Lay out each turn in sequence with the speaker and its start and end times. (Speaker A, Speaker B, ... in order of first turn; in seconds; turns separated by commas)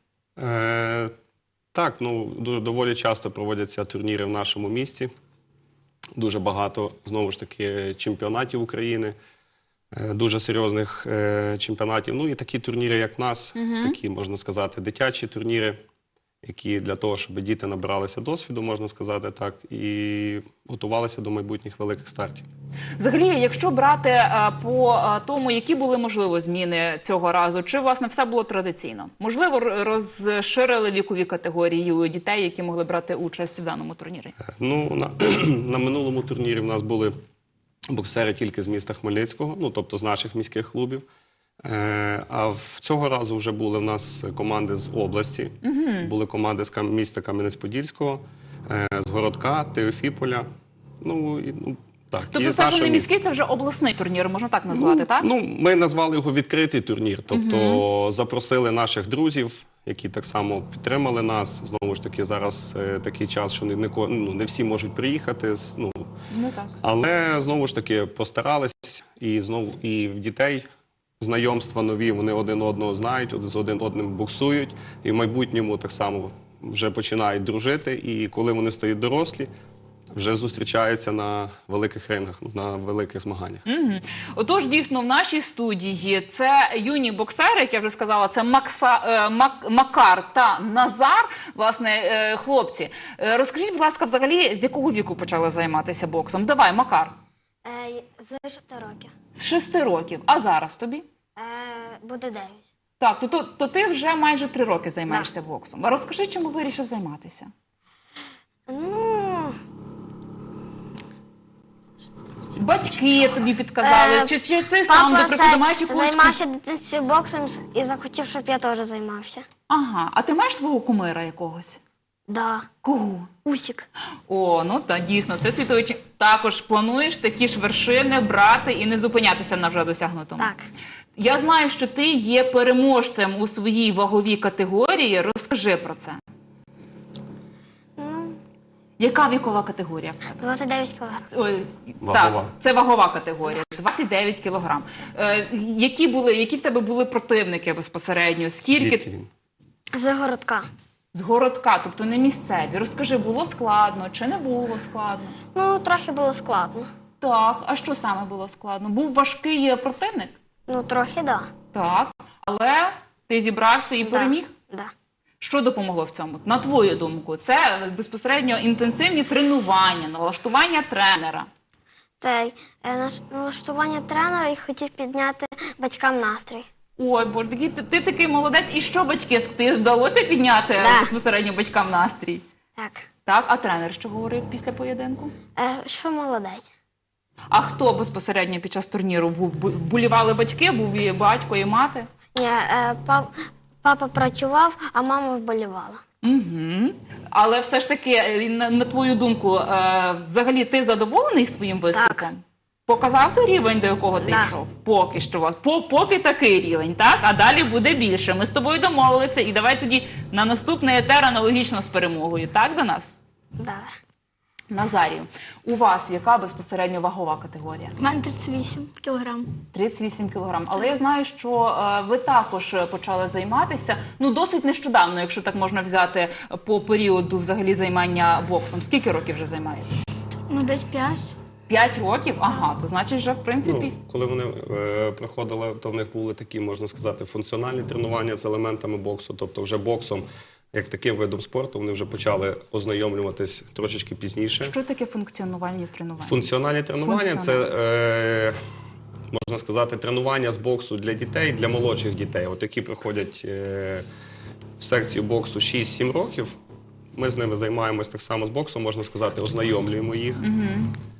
Speaker A: 0.4-1.1, Speaker A: 1.7-5.1, Speaker A: 6.2-9.2, Speaker A: 9.9-15.8, Speaker B: 13.6-14.0, Speaker A: 16.4-22.5, Speaker B: 23.0-34.4, Speaker A: 34.5-37.1, Speaker A: 37.9-41.1, Speaker A: 41.6-50.5, Speaker B: 45.6-46.1, Speaker A: 51.0-53.1, Speaker B: 52.3-55.3, Speaker A: 54.7-66.1, Speaker B: 57.3-57.8, Speaker B: 66.3-66.8, Speaker A: 66.8-70.7, Speaker A: 71.2-79.5, Speaker A: 80.1-83.7, Speaker B: 83.7-97.2, Speaker C: 97.7-99.1, Speaker B: 99.3-101.1, Speaker C: 101.4-102.6, Speaker B: 103.0-107.5, Speaker C: 108.7-109.6, Speaker B: 112.5-116.4, Speaker C: 113.8-114.3, Speaker C: 114.9-119.5, Speaker B: 119.7-121.8, Speaker C: 122.3-122.7, Speaker B: 122.8-123.3, Speaker C: 123.5-123.9, Speaker B: 124.3-130.5, Speaker C: 130.4-130.6, Speaker B: 131.2-136.2, Speaker C: 138.0-138.4, Speaker B: 139.0-140.4, Speaker C: 140.4-141.3, Speaker B: 141.3-149.1, Speaker A: 142.0-142.5, Speaker A: 148.7-149.3, Speaker C: 149.9-150.7, Speaker B: 151.1-155.4, Speaker C: 155.5-156.9, Speaker B: 157.2-160.3, Speaker C: 160.7-161.5, Speaker B: 161.7-164.5, Speaker C: 164.1-164.9, Speaker B: 165.4-171.5, Speaker C: 172.2-176.7, Speaker B: 177.0-182.4, Speaker C: 180.8-181.1, Speaker C: 182.8-183.1, Speaker B: 183.3-185.3, Speaker C: 185.6-186.7, Speaker B: 187.5-192.1, Speaker C: 192.3-196.0, Speaker B: 196.2-213.2, Speaker C: 201.9-202.3, Speaker C: 204.2-204.5, Speaker C: 213.6-213.9, Speaker B: 214.7-217.9, Speaker D: 218.0-219.5, Speaker B: 219.7-229.9, Speaker D: 230.5-231.3, Speaker B: 231.7-233.9, Speaker A: 233.6-244.8, Speaker B: 244.6-246.5, Speaker A: 246.2-248.6, Speaker B: 247.1-247.7, Speaker A: 249.3-254.1, Speaker A: 254.8-256.6, Speaker A: 257.1-260.5, Speaker B: 260.4-260.9